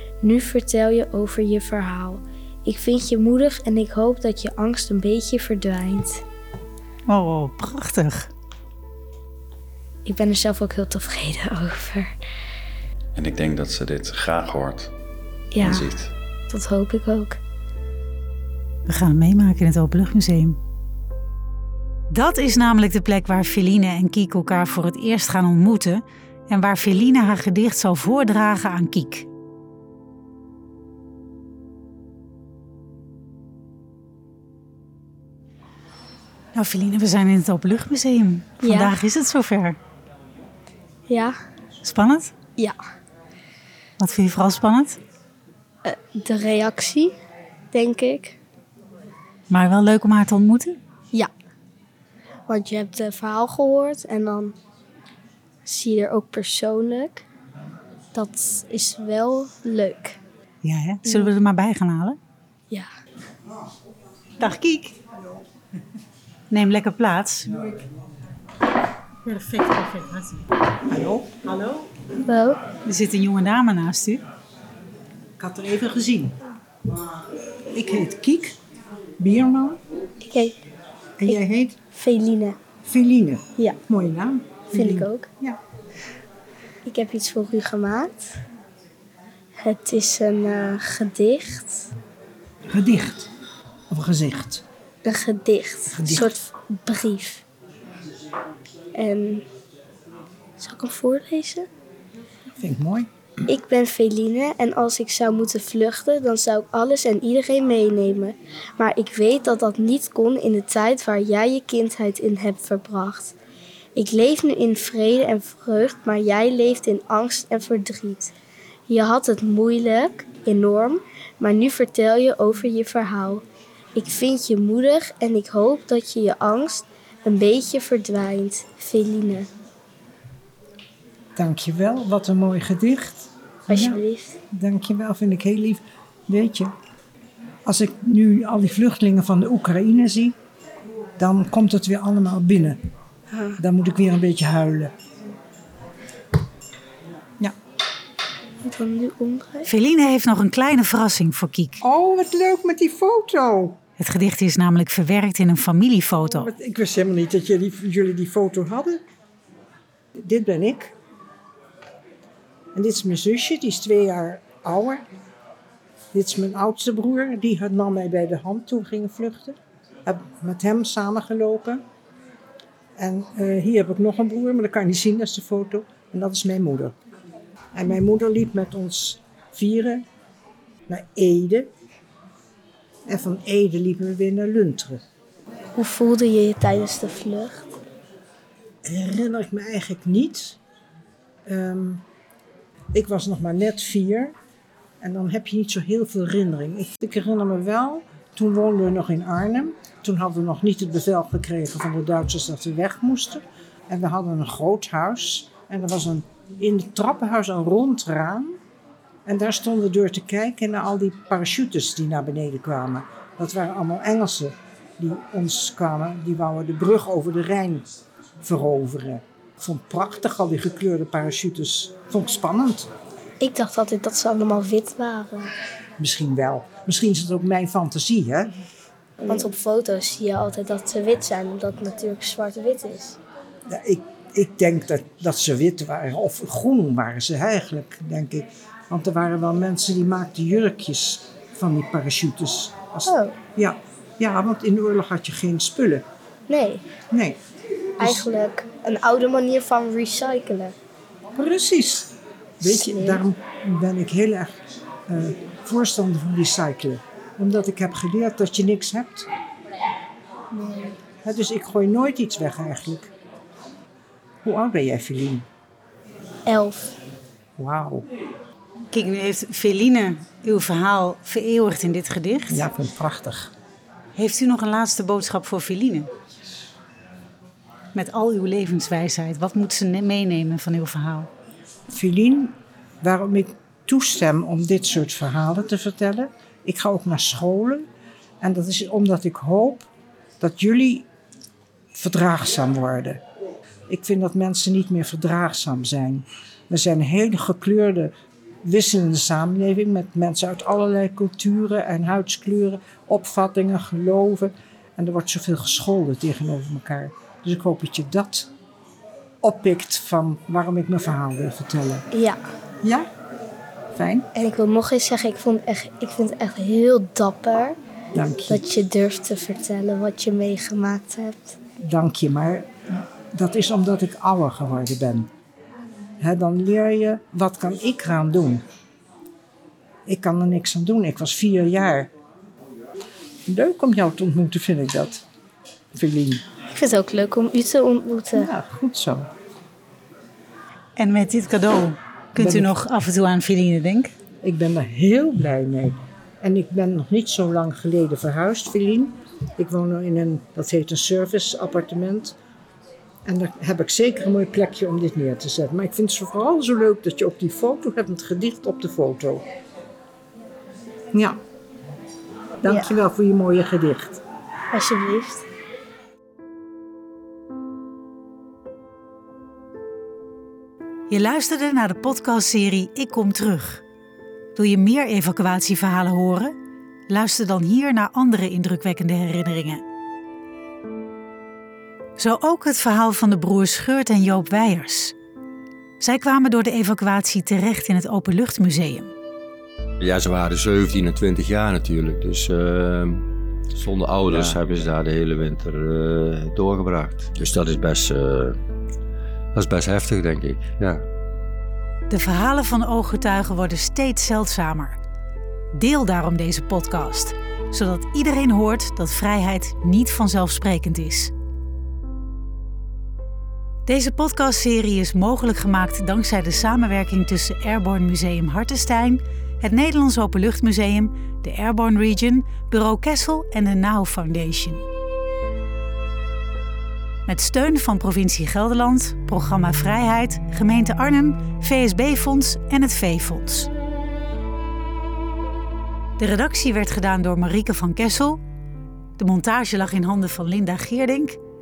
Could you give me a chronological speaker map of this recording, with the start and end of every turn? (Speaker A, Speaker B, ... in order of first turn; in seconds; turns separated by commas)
Speaker A: 0.2-6.2, Speaker B: 7.1-8.3, Speaker A: 10.0-12.1, Speaker C: 13.1-14.9, Speaker A: 15.5-15.9, Speaker C: 15.6-16.1, Speaker A: 16.5-17.4, Speaker B: 18.9-20.6, Speaker B: 22.1-29.3, Speaker B: 36.5-39.8, Speaker A: 38.6-38.9, Speaker A: 41.1-41.4, Speaker B: 41.8-42.3, Speaker B: 44.0-45.0, Speaker A: 45.8-47.1, Speaker A: 47.7-48.4, Speaker B: 49.5-50.8, Speaker A: 52.5-54.5, Speaker A: 55.6-57.2, Speaker A: 58.1-60.2, Speaker B: 60.6-62.2, Speaker A: 61.0-61.3, Speaker B: 64.4-65.0, Speaker B: 66.5-67.7, Speaker B: 69.2-70.5, Speaker D: 70.8-71.5, Speaker B: 71.5-71.9, Speaker A: 72.2-72.6, Speaker B: 72.8-74.2, Speaker D: 75.4-76.4, Speaker D: 77.7-78.5, Speaker D: 79.2-79.8, Speaker A: 80.2-80.6, Speaker D: 81.2-81.8, Speaker A: 81.9-82.6, Speaker D: 82.8-85.6, Speaker A: 84.7-85.3, Speaker A: 86.8-88.4, Speaker A: 89.6-91.9, Speaker D: 92.7-93.3, Speaker D: 93.9-94.6, Speaker A: 95.0-97.4, Speaker D: 95.9-96.3, Speaker A: 98.9-99.4, Speaker A: 100.6-101.7, Speaker D: 102.5-103.1, Speaker A: 103.5-113.3, Speaker A: 114.0-118.3, Speaker A: 118.9-123.4, Speaker A: 123.9-129.5, Speaker D: 131.3-134.0, Speaker A: 133.7-134.4, Speaker D: 134.5-136.7, Speaker D: 137.6-140.3, Speaker D: 141.2-142.8, Speaker A: 143.3-143.6, Speaker D: 143.6-144.9, Speaker A: 148.6-149.7, Speaker B: 149.7-151.8, Speaker D: 151.8-153.8, Speaker B: 154.0-156.5, Speaker D: 156.2-159.0, Speaker D: 160.2-160.9, Speaker D: 162.7-165.0, Speaker D: 166.1-171.8, Speaker D: 173.0-176.9, Speaker D: 177.7-180.0, Speaker D: 180.9-181.7, Speaker D: 183.1-185.0, Speaker A: 185.8-187.7, Speaker D: 188.8-190.6, Speaker D: 191.4-192.0, Speaker D: 192.9-194.3, Speaker D: 195.0-208.6, Speaker D: 209.2-217.8, Speaker D: 218.4-222.9, Speaker A: 223.4-225.5, Speaker D: 226.0-228.6, Speaker A: 229.2-233.2, Speaker D: 233.7-246.0, Speaker A: 243.1-243.3, Speaker A: 246.5-246.9, Speaker D: 247.1-247.4, Speaker D: 248.0-248.3, Speaker A: 248.0-250.7, Speaker D: 251.3-254.6, Speaker A: 252.6-253.2, Speaker D: 255.1-259.3, Speaker A: 260.5-261.0, Speaker D: 261.2-263.1, Speaker D: 264.4-265.4, Speaker A: 266.4-266.9, Speaker D: 267.6-268.1, Speaker B: 268.9-272.6, Speaker D: 272.5-273.5, Speaker B: 274.1-276.1, Speaker B: 277.9-281.3, Speaker D: 281.9-287.9, Speaker D: 288.4-289.9, Speaker D: 290.4-291.1, Speaker D: 291.9-293.2, Speaker D: 293.9-298.1, Speaker D: 298.6-308.5, Speaker D: 309.4-312.1, Speaker A: 312.1-312.4, Speaker D: 312.8-313.1, Speaker D: 313.9-314.3, Speaker A: 314.3-317.8, Speaker D: 318.1-318.6, Speaker A: 318.5-321.6, Speaker D: 321.8-325.3, Speaker D: 326.2-328.6, Speaker D: 330.1-332.1, Speaker D: 333.5-335.2, Speaker D: 335.9-336.4, Speaker A: 336.7-338.5, Speaker D: 338.3-339.3, Speaker B: 340.9-344.1, Speaker D: 342.4-342.7, Speaker D: 344.4-352.4, Speaker D: 353.2-359.4, Speaker D: 361.1-361.4, Speaker D: 362.6-364.2, Speaker A: 364.7-365.4, Speaker B: 371.1-373.8, Speaker B: 374.5-376.5, Speaker B: 377.1-379.8, Speaker B: 382.2-385.1, Speaker B: 386.0-389.1, Speaker E: 390.0-398.6, Speaker E: 399.5-401.0, Speaker B: 402.1-405.0, Speaker B: 405.7-411.3, Speaker B: 413.9-424.8, Speaker B: 427.2-433.7, Speaker B: 436.2-438.4, Speaker B: 439.2-441.4